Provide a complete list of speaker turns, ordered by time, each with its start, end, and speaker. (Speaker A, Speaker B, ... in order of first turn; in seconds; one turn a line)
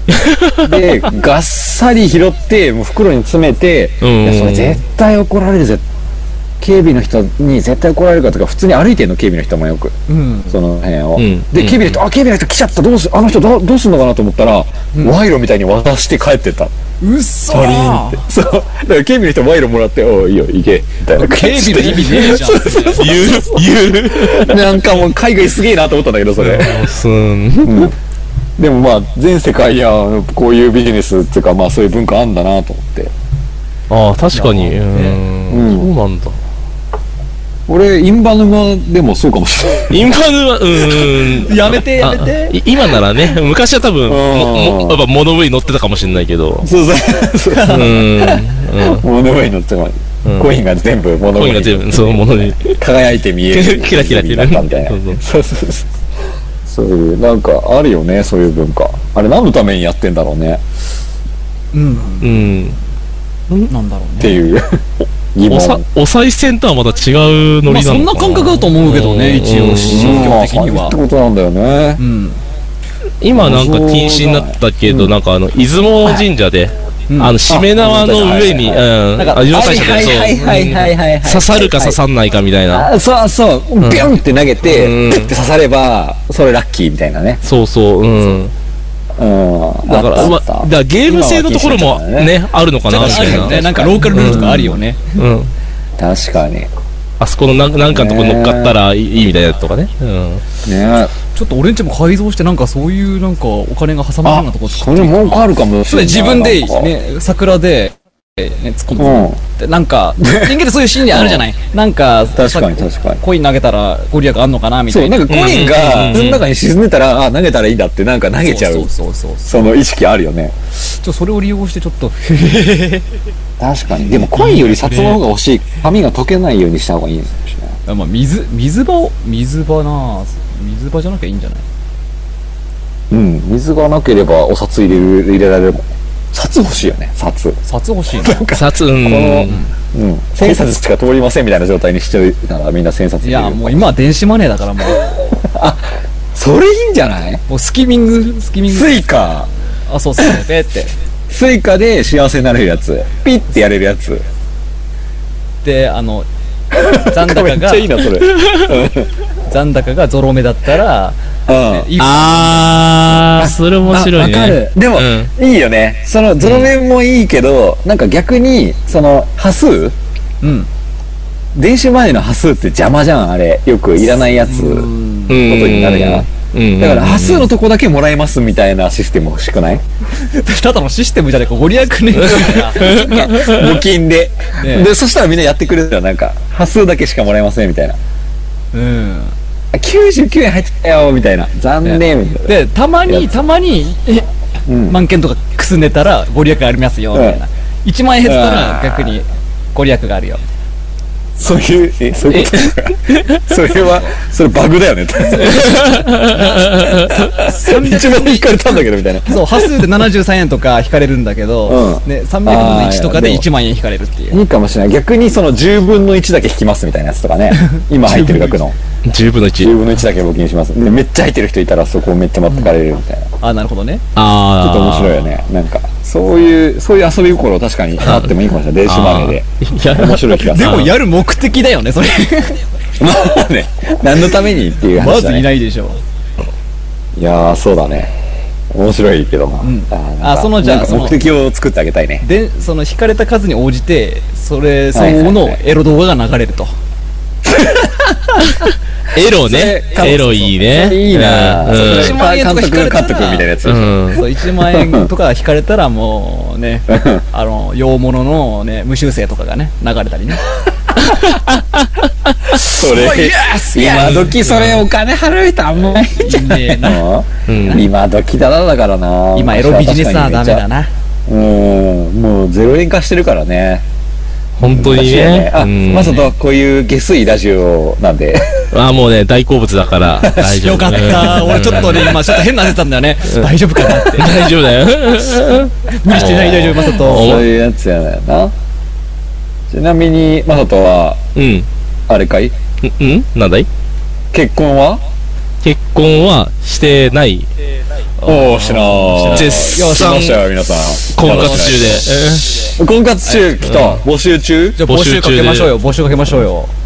Speaker A: 0.1-0.7
Speaker B: 0.6-5.8
Speaker A: 4.0-4.8
Speaker B: 6.6-9.9
Speaker C: 10.1-10.6
Speaker B: 10.5-16.7
Speaker A: 11.2-12.0
Speaker C: 17.0-18.2
Speaker B: 17.5-26.9
Speaker C: 21.1-23.2
Speaker A: 22.9-24.7
Speaker A: 26.4-27.9
Speaker B: 27.6-27.9
Speaker B: 28.6-33.1
Speaker A: 33.9-36.4
Speaker C: 34.3-35.2
Speaker B: 35.5-35.9
Speaker B: 37.7-40.1
Speaker A: 39.9-46.7
Speaker C: 41.4-42.6
Speaker B: 44.1-45.0
Speaker B: 46.6-55.9
Speaker C: 47.5-48.0
Speaker A: 47.7-49.0
Speaker A: 50.2-50.5
Speaker A: 51.4-52.8
Speaker A: 53.5-55.2
Speaker B: 56.6-60.6
Speaker C: 61.7-62.6
Speaker A: 62.2-62.8
Speaker C: 63.7-64.4
Speaker B: 64.2-65.8
Speaker A: 65.5-70.3
Speaker C: 67.7-71.0
Speaker B: 69.9-72.0
Speaker C: 72.0-72.4
Speaker A: 73.2-82.9
Speaker B: 73.3-75.1
Speaker C: 77.1-77.4
Speaker B: 77.5-78.8
Speaker C: 79.2-80.3
Speaker B: 79.5-82.0
Speaker B: 82.7-87.4
Speaker A: 83.8-84.1
Speaker A: 84.7-85.3
Speaker A: 87.4-88.5
Speaker B: 89.2-92.3
Speaker A: 89.8-95.5
Speaker C: 92.9-95.2
Speaker B: 92.9-94.8
Speaker B: 96.0-96.7
Speaker A: 97.2-100.4
Speaker B: 97.9-98.8
Speaker B: 100.6-101.1
Speaker C: 101.3-115.3
Speaker B: 104.2-106.9
Speaker B: 109.0-109.4
Speaker B: 110.2-111.4
Speaker B: 112.3-113.2
Speaker B: 114.9-118.9
Speaker A: 115.3-116.4
Speaker C: 118.4-119.7
Speaker B: 119.4-120.5
Speaker C: 120.8-123.0
Speaker B: 123.6-127.7
Speaker C: 124.1-125.2
Speaker C: 127.8-131.6
Speaker B: 133.1-137.6
Speaker C: 137.6-138.4
Speaker B: 138.1-143.8
Speaker A: 138.5-139.6
Speaker C: 139.4-139.7
Speaker C: 143.2-145.2
Speaker B: 145.0-147.4
Speaker C: 147.5-149.1
Speaker B: 148.7-149.5
Speaker C: 149.9-150.9
Speaker B: 151.3-154.2
Speaker C: 155.6-156.3
Speaker B: 156.7-159.1
Speaker C: 156.9-158.0
Speaker A: 158.2-158.7
Speaker C: 159.4-163.5
Speaker B: 161.5-161.9
Speaker A: 162.0-165.3
Speaker B: 163.4-169.9
Speaker A: 166.4-166.7
Speaker C: 170.4-170.7
Speaker B: 171.5-179.8
Speaker C: 174.5-175.4
Speaker A: 175.3-177.5
Speaker C: 180.1-183.2
Speaker B: 182.2-188.0
Speaker A: 182.8-183.8
Speaker C: 184.6-184.9
Speaker C: 188.7-189.3
Speaker B: 189.7-192.5
Speaker C: 191.8-194.3
Speaker B: 194.7-195.0
Speaker C: 194.9-200.4
Speaker B: 197.1-197.4
Speaker B: 198.2-199.1
Speaker B: 201.4-206.0
Speaker A: 202.3-203.4
Speaker C: 203.7-204.1
Speaker C: 205.4-205.8
Speaker A: 205.4-207.2
Speaker B: 206.5-209.6
Speaker C: 207.3-214.4
Speaker B: 211.7-213.4
Speaker B: 214.3-218.8
Speaker C: 217.5-218.6
Speaker A: 219.0-219.7
Speaker B: 219.6-223.3
Speaker C: 222.5-222.8
Speaker C: 223.4-224.0
Speaker A: 224.2-225.2
Speaker B: 224.6-230.8
Speaker A: 228.0-230.9
Speaker C: 230.3-232.6
Speaker B: 233.0-235.5
Speaker C: 234.9-236.0
Speaker B: 237.2-238.1
Speaker B: 238.7-242.2
Speaker C: 239.6-241.2
Speaker C: 242.2-246.7
Speaker B: 244.9-245.6
Speaker B: 247.4-248.1
Speaker A: 248.4-252.2
Speaker B: 249.3-254.0
Speaker C: 251.7-253.5
Speaker A: 253.6-254.2
Speaker C: 254.1-260.4
Speaker B: 254.6-255.1
Speaker B: 256.9-257.2
Speaker A: 261.1-261.9
Speaker B: 262.5-270.6
Speaker C: 262.7-264.3
Speaker A: 263.9-264.8
Speaker C: 266.1-267.1
Speaker A: 267.5-267.9
Speaker C: 269.3-270.9
Speaker B: 271.3-273.8
Speaker A: 274.6-276.3
Speaker B: 274.6-278.7
Speaker A: 278.7-282.3
Speaker B: 280.2-281.1
Speaker C: 280.4-284.5
Speaker A: 283.2-287.4
Speaker C: 285.9-287.4
Speaker B: 287.0-288.5
Speaker B: 289.7-291.2
Speaker A: 291.3-291.7
Speaker B: 292.1-292.5
Speaker A: 292.8-293.7
Speaker B: 294.3-295.0
Speaker A: 295.6-297.5
Speaker C: 298.2-300.3
Speaker B: 298.2-304.8
Speaker A: 299.3-300.4
Speaker A: 301.1-302.7
Speaker C: 301.2-301.8
Speaker A: 303.6-304.0
Speaker C: 304.8-306.7
Speaker A: 304.9-305.8